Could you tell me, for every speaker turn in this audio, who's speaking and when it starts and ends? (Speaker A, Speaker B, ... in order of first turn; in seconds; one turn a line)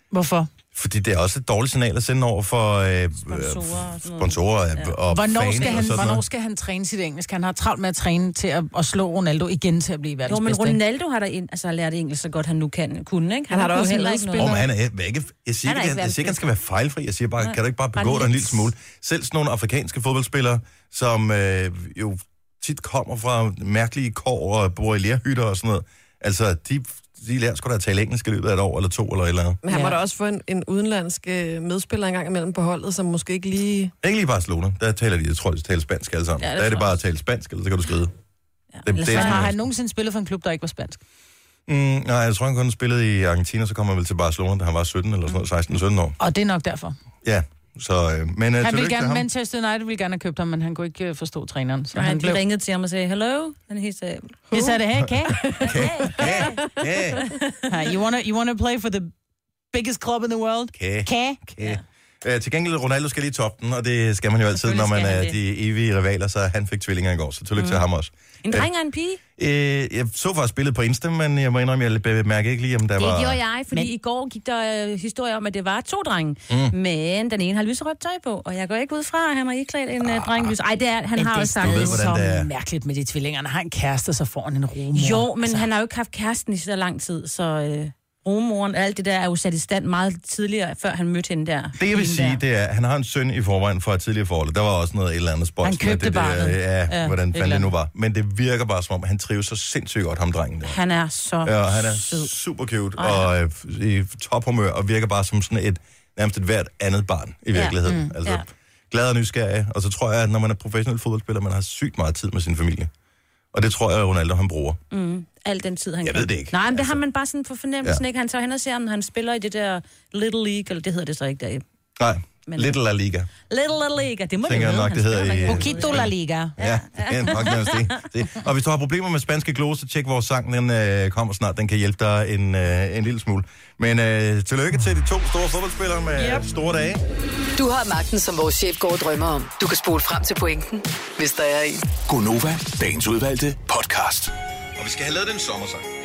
Speaker A: 0.1-0.5
Speaker B: 0.7-6.2
Speaker C: 3.2-5.0
Speaker A: 5.1-10.8
Speaker C: 5.5-6.0
Speaker C: 10.3-14.5
Speaker D: 13.5-14.6
Speaker B: 14.4-29.6
Speaker C: 15.7-16.4
Speaker C: 17.4-18.7
Speaker D: 29.6-33.9
Speaker A: 29.7-30.0
Speaker B: 34.0-38.1
Speaker C: 36.4-36.9
Speaker C: 38.7-39.5
Speaker B: 38.9-39.6
Speaker A: 39.0-41.0
Speaker B: 41.7-46.2
Speaker A: 46.2-47.0
Speaker B: 47.2-49.3
Speaker A: 48.6-52.4
Speaker C: 52.0-54.4
Speaker D: 54.5-54.8
Speaker A: 54.5-55.4
Speaker B: 55.0-57.3
Speaker D: 55.3-56.4
Speaker C: 55.6-56.6
Speaker C: 57.2-57.5
Speaker A: 57.7-59.1
Speaker A: 59.7-61.5
Speaker B: 60.8-68.7
Speaker C: 64.6-65.4
Speaker C: 67.6-67.8
Speaker C: 68.4-69.2
Speaker B: 69.4-73.4
Speaker C: 73.0-82.1
Speaker B: 76.5-76.8
Speaker B: 80.0-80.5
Speaker A: 81.2-85.7
Speaker B: 81.5-82.5
Speaker C: 84.9-92.4
Speaker B: 91.8-100.8
Speaker A: 95.6-97.7
Speaker C: 100.7-102.3
Speaker B: 101.4-112.9
Speaker C: 103.0-103.3
Speaker C: 107.5-108.4
Speaker B: 113.5-114.8
Speaker C: 114.9-121.6
Speaker B: 116.0-117.0
Speaker B: 122.0-123.3
Speaker C: 122.5-122.8
Speaker C: 123.5-128.0
Speaker B: 124.4-137.0
Speaker A: 125.5-126.6
Speaker E: 137.6-141.8
Speaker F: 142.1-144.3
Speaker B: 144.8-145.8